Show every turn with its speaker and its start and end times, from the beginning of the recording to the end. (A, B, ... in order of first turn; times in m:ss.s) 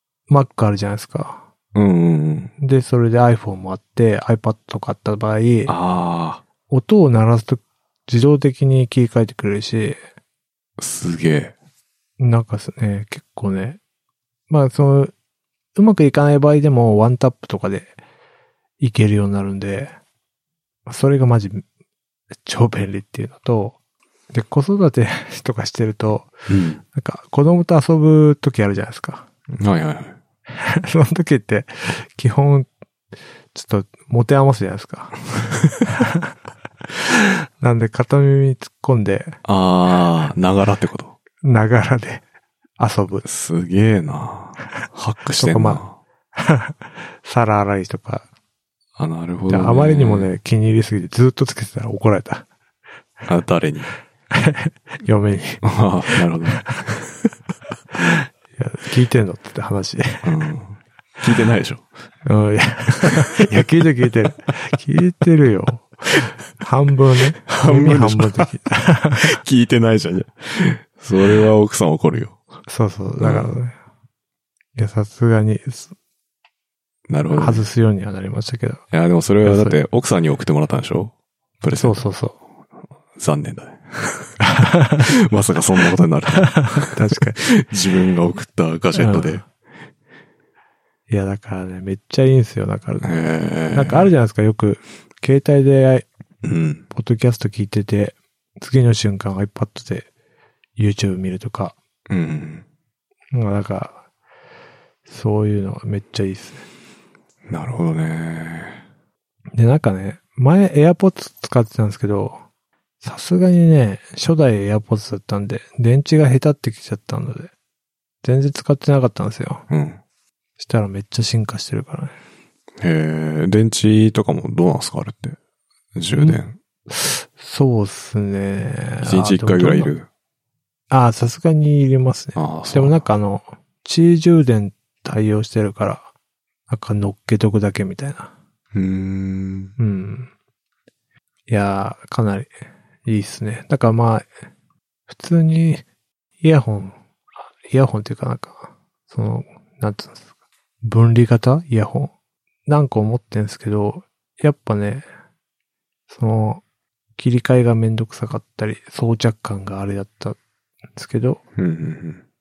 0:00.3-0:01.4 A
0:01.8-0:02.5 B
0:02.6-0:05.7 A
0:05.7-0:06.4 B
0:06.7-0:10.0 A
0:10.8-0:11.5 B
0:12.2-0:13.8 A
0:14.5-0:15.1 A
0:15.8-0:18.0 A
0:18.8-0:19.9 A
0:20.9-0:21.6 A
0:22.4-0:23.8 A
0:24.3-0:26.3 A
0:26.5-0:26.8 B
0:26.9-0:29.3 A
0:29.5-0:30.2 B
0:30.6-0:32.7 A
0:33.5-0:35.2 A
0:35.8-0:36.2 A
0:37.0-0:39.4 A
0:39.4-0:41.2 B
0:41.4-0:42.2 A
0:42.8-0:43.2 A
0:43.2-0:46.0 B
0:45.4-0:45.8 A
0:46.4-0:48.3 A
0:49.0-0:50.3 B
0:49.5-0:52.5 A
0:53.3-0:53.9 B
0:54.3-0:56.7 A
0:55.6-0:56.9 B
0:58.1-1:00.4 A
1:00.2-1:01.9 B
1:02.2-1:09.3 A
1:07.5-1:08.6 B
1:09.2-1:12.4 B
1:12.7-1:13.8 A
1:13.2-1:13.6 B
1:14.8-1:15.9 A
1:17.1-1:17.6 B
1:17.4-1:18.8 A
1:18.9-1:22.0 B
1:19.4-1:19.8 A
1:21.8-1:22.4 A
1:23.2-1:24.4 B
1:24.4-1:25.1 A
1:25.0-1:29.5 B
1:26.6-1:27.4 A
1:28.9-1:29.4 A
1:31.1-1:33.1 A
1:33.0-1:34.1 B
1:33.7-1:36.1 A
1:36.4-1:36.8 B
1:36.9-1:40.1 A
1:40.8-1:41.8 A
1:42.1-1:42.6 B
1:43.3-1:44.0 A
1:45.1-1:46.6 A
1:47.5-1:48.8 B
1:49.5-1:52.4 A
1:53.0-1:57.5 A
1:58.2-1:59.7 A
1:59.7-2:00.0 B
2:00.6-2:02.2 A
2:02.8-2:05.4 B
2:06.0-2:06.6 B
2:06.2-2:09.9 A
2:09.0-2:10.1 B
2:10.9-2:16.1 A
2:12.4-2:13.0 B
2:16.7-2:18.3 A
2:18.7-2:19.7 B
2:19.8-2:20.3 A
2:21.5-2:22.5 A
2:23.1-2:24.3 A
2:25.1-2:25.8 A
2:26.4-2:27.0 A
2:27.7-2:30.3 A
2:30.8-2:32.1 A
2:32.7-2:35.1 A
2:36.1-2:36.6 A
2:37.2-2:40.4 A
2:41.0-2:41.4 A
2:41.6-2:42.2 B